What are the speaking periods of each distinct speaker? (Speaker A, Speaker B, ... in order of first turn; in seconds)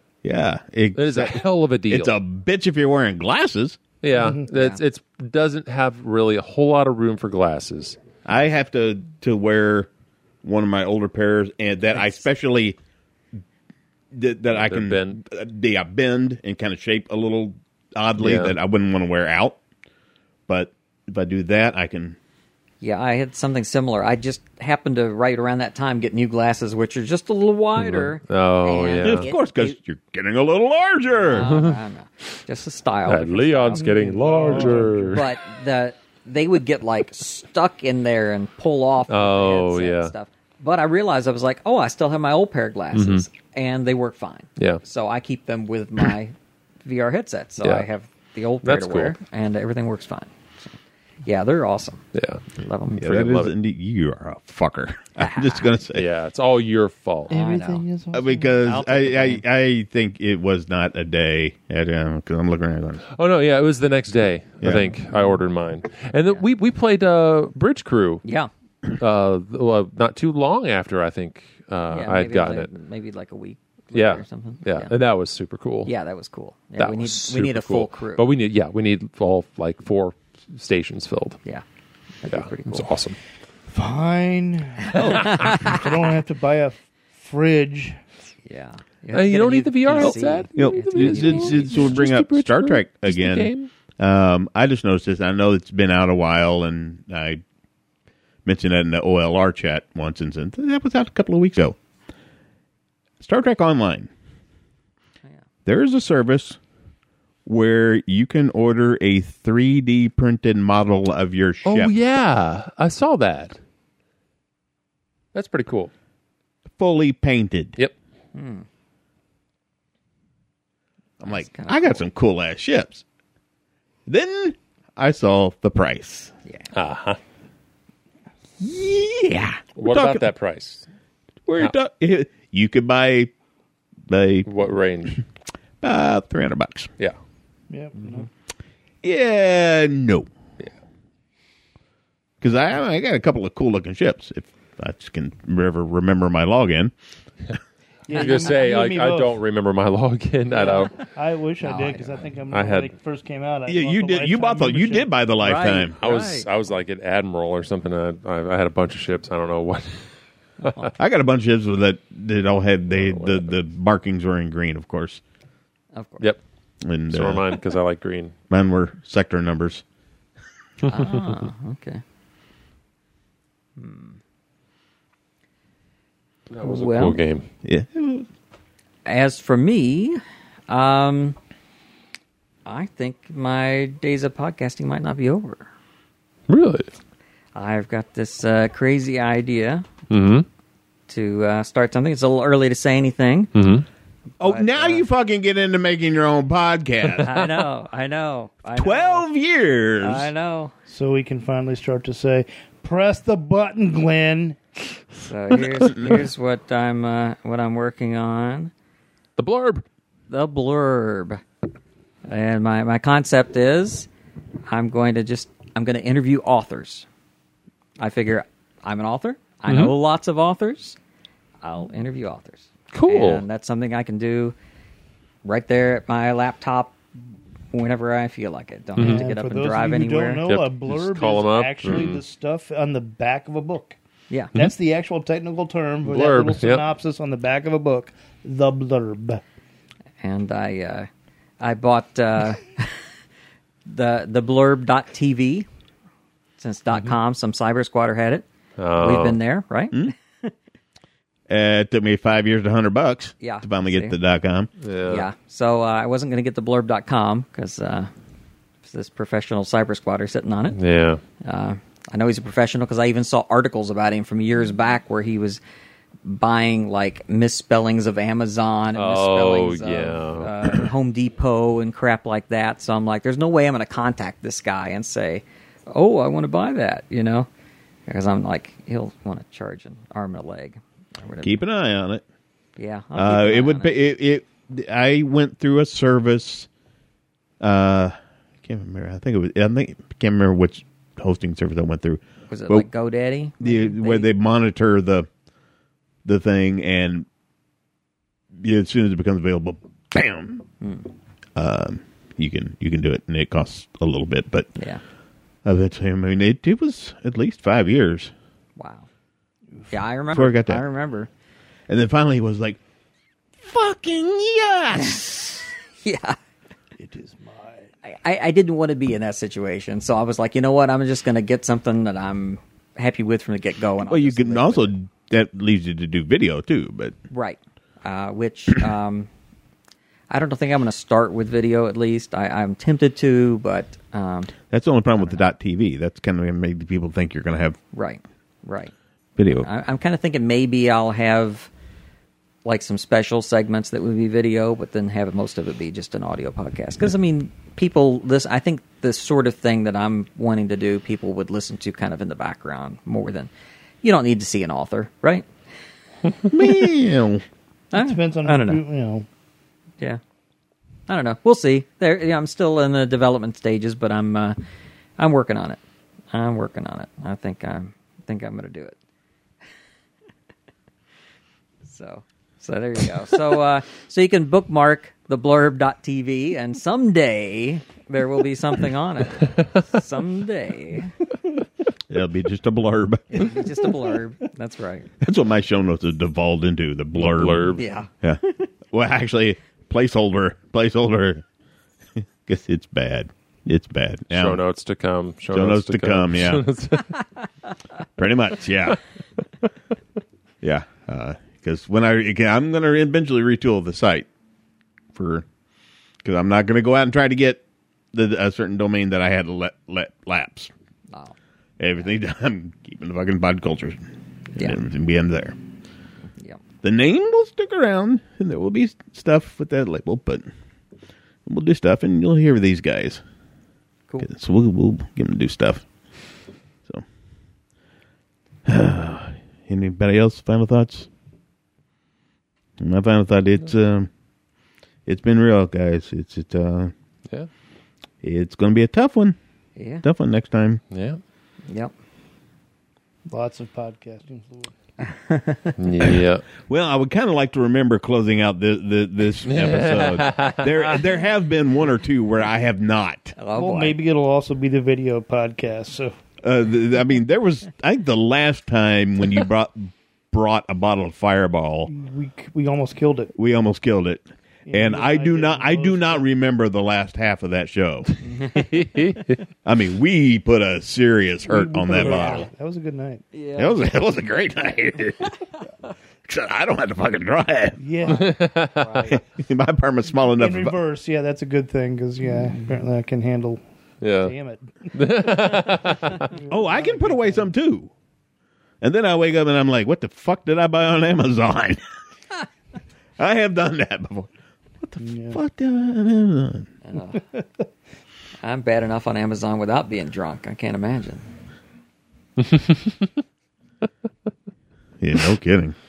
Speaker A: 0.2-3.8, 8.3-9.9, 10.4-12.8, 14.1-19.6, 20.5-22.2, 29.0-31.5, 53.0-56.1, 58.1-63.1, 64.6-64.9, 90.5-97.4, 98.5-101.8, 103.2-104.1, 105.7-106.6, 107.5-111.9, 116.8-117.8, 121.2-123.0, 124.1-126.3, 128.6-130.3, 131.5-133.3, 134.1-134.5, 135.8-136.9, 139.0-140.3, 142.4-146.9, 153.7-155.9, 161.0-165.2, 166.8-167.6, 168.5-169.8, 177.6-178.3, 194.4-197.3, 198.7-200.3, 251.5-254.7, 281.4-282.2, 283.2-286.7, 287.6-292.9, 293.6-295.3, 296.2-297.3, 298.6-300.6, 301.6-304.7, 305.6-308.3, 310.3-310.8, 311.9-312.8, 313.6-315.7, 324.0-327.1, 334.7-337.8, 339.4-339.7, 356.5-357.4, 382.1-383.6, 385.2-391.4, 392.2-394.6, 395.5-396.7, 398.2-399.0, 400.6-404.3, 405.1-405.4, 406.2-407.6, 408.1-410.7, 411.8-414.0, 414.6-415.6, 416.8-420.5, 421.4-423.2, 424.2-425.9, 428.7-431.1, 432.8-434.1, 435.1-436.9, 438.2-439.4, 440.0-440.8, 446.0-453.4, 456.4-461.9, 463.4-468.2, 469.6-472.5, 473.6-475.4, 476.3-478.2, 479.1-480.8, 486.5-487.9, 488.8-491.8, 493.2-496.7, 505.0-505.8
Speaker B: 0.9-2.2, 4.0-8.0, 14.5-15.2, 18.2-18.6, 27.8-29.3, 31.3-31.8, 33.1-35.3, 39.1-40.1, 42.9-43.3, 44.6-44.8, 47.6-47.9, 48.6-49.2, 52.1-53.5, 55.9-57.3, 63.1-68.2, 69.0-72.7, 73.9-75.9, 76.8-81.4, 82.3-83.2, 89.1-93.7, 111.7-113.6, 115.3-115.9, 126.7-127.2, 129.8-130.9, 134.5-135.2, 148.1-150.9, 152.5-152.9, 156.0-160.1, 162.9-163.5, 167.1-168.3, 176.5-177.4, 186.5-186.9, 190.1-190.5, 193.6-193.9, 209.4-209.8, 219.7-219.9, 222.9-223.4, 229.0-229.3, 230.5-232.2, 236.1-236.9, 248.8-249.4, 254.8-255.3, 260.7-261.2, 268.9-270.9, 387.2-387.8, 394.3-397.2, 440.9-441.2, 445.8-446.4, 449.4-451.0, 468.5-469.4, 478.1-479.1, 484.0-484.3, 484.9-486.3, 502.4-503.1
Speaker C: 4.2-4.4, 33.8-35.2, 57.3-58.6, 83.7-88.0, 137.7-138.3, 148.1-149.4, 150.5-155.1, 200.9-204.6, 229.0-234.0, 234.6-239.4, 317.0-317.9, 357.9-359.3, 443.3-444.7, 453.5-456.1, 461.9-463.3, 464.7-466.3, 471.5-473.2, 477.8-479.2, 480.4-483.6, 484.2-484.9, 486.2-487.5, 495.0-495.4, 497.1-497.4
Speaker D: 4.4-4.8, 22.8-29.8, 31.3-34.0, 34.5-50.7, 51.2-52.0, 52.5-53.0, 55.2-55.7, 57.3-57.9, 58.6-59.4, 68.2-68.5, 71.9-74.9, 75.8-78.3, 82.2-82.9, 85.2-85.8, 88.5-91.9, 118.3-118.7, 121.3-122.0, 148.1-148.5, 151.6-152.3, 155.4-156.5, 160.6-160.9, 165.9-166.3, 170.9-172.0, 173.8-174.2, 176.6-177.2, 179.1-181.4, 182.7-185.7, 187.6-189.9, 191.1-193.5, 194.4-195.1, 197.2-199.3, 200.0-200.7, 205.2-208.7, 210.3-211.4, 212.3-214.1, 214.7-217.1, 218.0-221.0, 221.6-224.6, 225.4-227.0, 227.7-230.4, 240.2-241.1, 241.6-242.9, 243.9-245.7, 246.6-248.5, 249.0-250.5, 253.4-254.2, 255.1-258.1, 258.9-260.8, 261.4-265.6, 266.2-277.5, 278.1-281.6, 282.8-284.0, 292.5-294.3, 300.8-301.1, 308.8-309.1, 309.9-311.3, 316.0-316.4, 318.0-324.9, 327.3-329.3, 330.3-334.5, 335.2-335.4, 337.9-338.9, 339.6-341.7, 342.6-353.5, 354.0-355.5, 357.9-358.8, 361.1-364.6, 365.2-365.8, 366.3-369.0, 371.9-381.1, 383.3-385.1, 387.8-388.1, 414.6-414.8, 439.8-440.1, 441.7-441.9, 445.0-445.7, 453.4-454.0, 468.3-468.6, 473.3-473.8, 496.9-497.2, 498.4-501.3